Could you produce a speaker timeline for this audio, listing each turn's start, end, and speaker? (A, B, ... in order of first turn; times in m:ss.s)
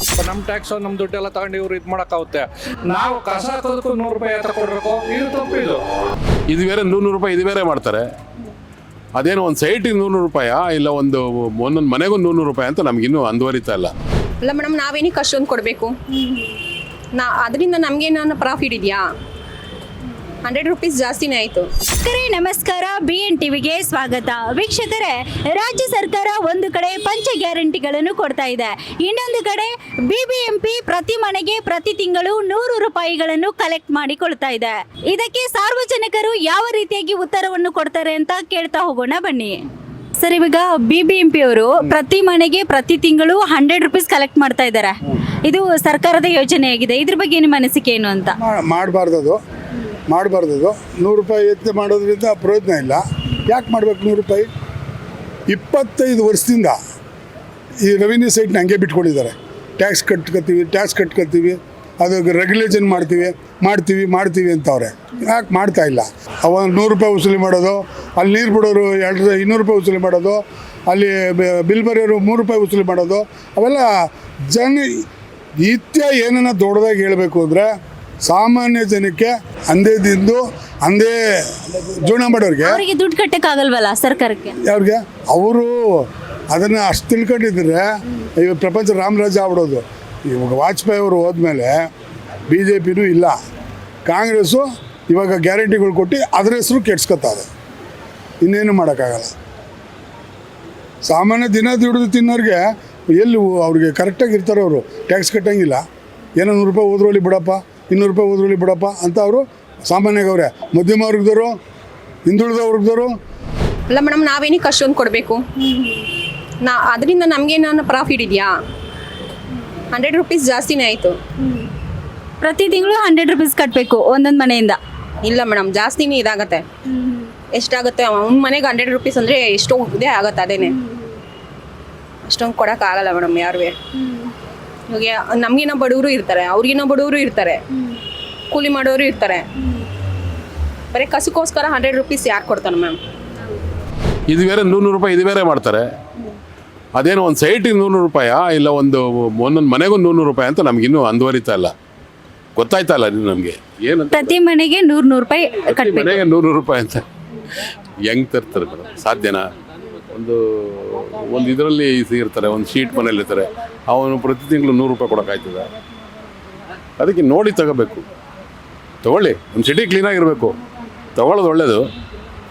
0:00.2-0:05.8 A
0:06.5-0:08.0 B
0:09.2-0:13.9 B
0:14.4-0:16.4 C
0:17.2-0:19.0 C
0:20.4-0:21.7 C
0:22.0-0:39.6 D
0:40.2-0:48.3 D
0:48.4-0:49.4 E
0:50.1-0:54.5 E
0:55.5-0:56.8 E
0:57.8-1:13.8 E
1:14.5-1:14.9 E
1:15.6-1:17.7 E
1:18.3-1:22.8 E
1:22.6-1:24.6 D
1:24.6-1:27.8 E
1:28.4-1:31.7 E
1:32.5-1:33.4 E
1:34.1-1:37.5 E
1:38.4-1:39.3 E
1:41.0-1:45.8 E
1:46.4-1:51.5 E
1:52.3-1:53.1 E
1:53.9-1:55.8 C
1:56.6-1:58.5 C
1:59.9-2:01.1 C
2:02.4-2:04.8 D
2:05.2-2:06.6 C
2:07.6-2:10.7 C
2:12.3-2:13.8 C
2:14.9-2:17.6 C
2:18.5-2:19.4 C
2:20.9-2:23.0 C
2:24.3-2:25.8 B
2:27.0-2:31.7 B
2:32.6-2:34.4 B
2:34.1-2:36.2 D
2:35.7-2:37.0 B
2:38.0-2:39.5 B
2:40.1-2:45.7 B
2:47.0-2:48.0 B
2:49.0-2:50.6 B
2:51.2-2:51.9 B